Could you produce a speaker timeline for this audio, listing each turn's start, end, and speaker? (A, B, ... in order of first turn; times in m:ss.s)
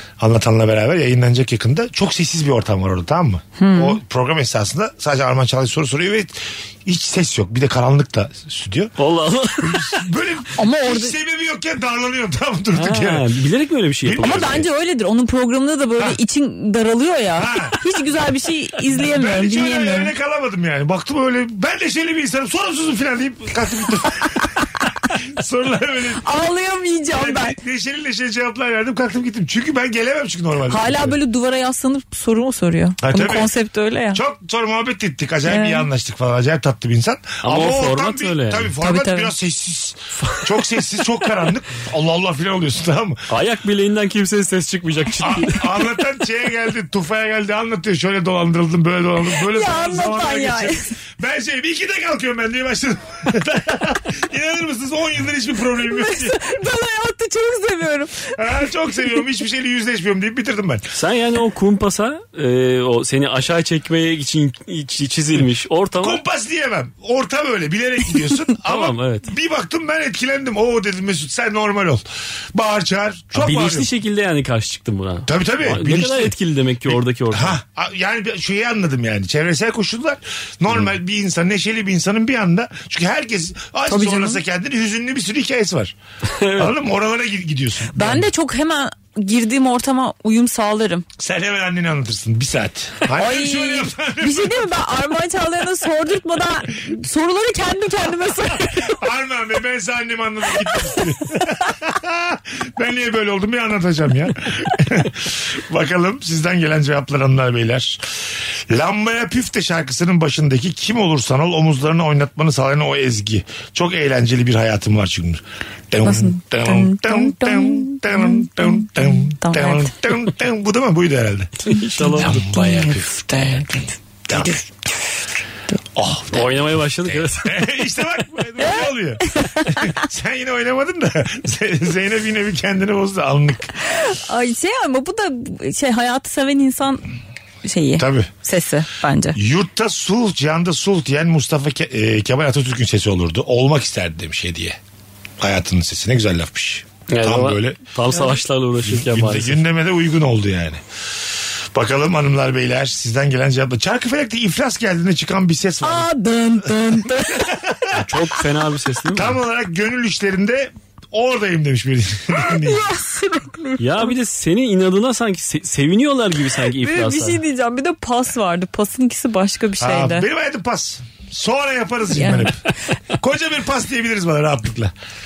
0:00.2-0:08.9 A
0:03.6-0:04.0 B
0:09.0-0:10.0 C
0:09.6-0:13.3 A
0:10.6-0:11.2 B
0:12.7-0:14.6 C
0:14.0-0:14.6 A
0:14.2-0:20.1 B
0:17.4-0:17.8 A
0:18.9-0:26.4 A
0:26.2-0:27.6 B
0:27.1-0:31.2 A
0:30.7-0:34.2 B
0:33.0-0:33.5 A
0:34.1-0:43.2 A
0:35.5-0:35.9 B
0:37.4-0:38.7 C
0:38.8-0:39.3 B
0:43.3-0:45.8 C
0:45.2-0:56.6 A
0:49.4-0:50.9 B
0:55.8-0:58.4 B
0:58.3-1:00.9 A
1:01.0-1:06.2 C
1:06.0-1:13.9 A
1:08.6-1:09.3 C
1:13.3-1:17.6 C
1:15.3-1:16.3 A
1:16.9-1:26.0 A
1:23.9-1:24.4 B
1:26.4-1:26.7 C
1:26.6-1:28.3 A
1:27.9-1:31.0 B
1:31.2-1:34.7 A
1:33.1-1:39.0 B
1:38.6-1:48.0 A
1:48.7-2:04.7 A
1:56.0-1:59.9 B
2:01.7-2:02.5 C
2:02.2-2:04.6 B
2:06.0-2:13.7 A
2:06.3-2:07.6 C
2:08.6-2:10.0 B
2:13.9-2:17.1 B
2:17.6-2:19.4 B
2:18.0-2:18.3 A
2:19.3-2:24.8 A
2:25.4-2:30.8 A
2:27.1-2:29.6 C
2:31.8-2:36.1 A
2:35.8-2:37.6 B
2:37.3-2:38.0 A
2:37.9-2:39.4 C
2:39.1-2:42.8 A
2:42.3-2:44.1 B
2:43.8-2:47.4 C
2:46.7-2:50.3 B
2:49.8-2:52.6 A
2:52.1-2:52.5 B
2:53.1-2:54.9 A